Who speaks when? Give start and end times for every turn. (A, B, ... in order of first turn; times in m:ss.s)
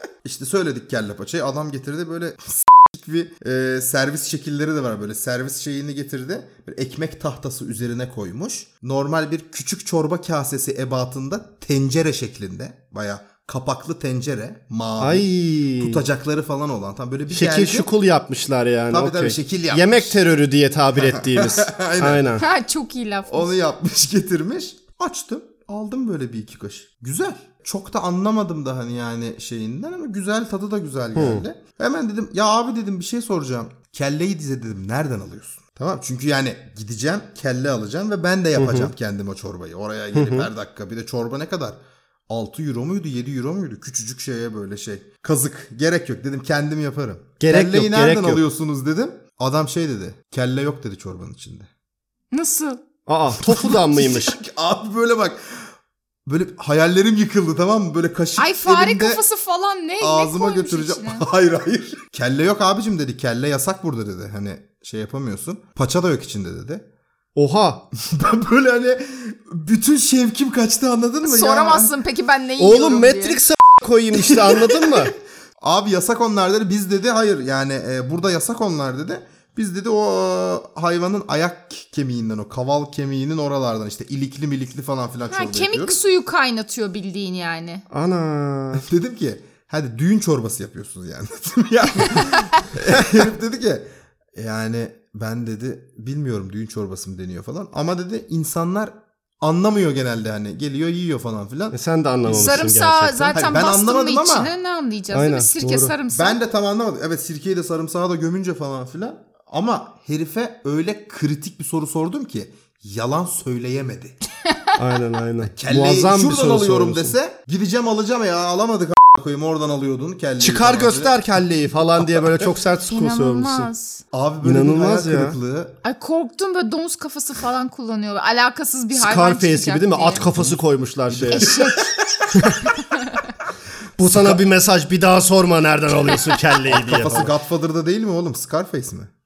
0:00.2-0:17.9 A
0:15.0-0:16.0 B
0:17.3-0:22.4 B
0:18.9-0:20.2 A
0:21.1-0:22.3 A
0:22.4-0:23.5 C
0:23.3-0:51.7 A
0:31.2-0:31.4 B
0:38.6-0:38.9 B
0:40.2-0:40.5 B
0:47.4-0:48.4 B
0:52.3-0:52.8 C
0:53.1-0:54.4 B
0:53.4-0:55.6 A
0:56.3-0:59.2 A
0:58.4-1:01.3 C
1:00.0-1:06.8 A
1:07.4-1:07.8 B
1:08.0-1:11.9 A
1:11.2-1:13.4 C
1:12.6-1:15.1 B
1:14.4-1:15.1 A
1:15.6-1:26.0 A
1:25.3-1:27.8 C
1:27.9-1:28.8 B
1:28.8-1:41.8 A
1:41.7-1:43.5 B
1:42.3-1:46.4 C
1:43.3-1:44.5 A
1:45.1-1:45.9 B
1:46.1-1:54.2 A
1:54.8-1:57.2 B
1:55.5-2:01.2 A
2:00.4-2:03.7 B
2:02.9-2:04.0 C
2:04.1-2:05.8 A
2:04.4-2:05.4 B
2:05.8-2:10.2 C
2:09.0-2:11.6 B
2:10.2-2:10.6 A
2:11.1-2:12.5 A
2:11.3-2:11.9 C
2:12.7-2:13.3 C
2:14.0-2:17.3 B
2:16.7-2:19.1 A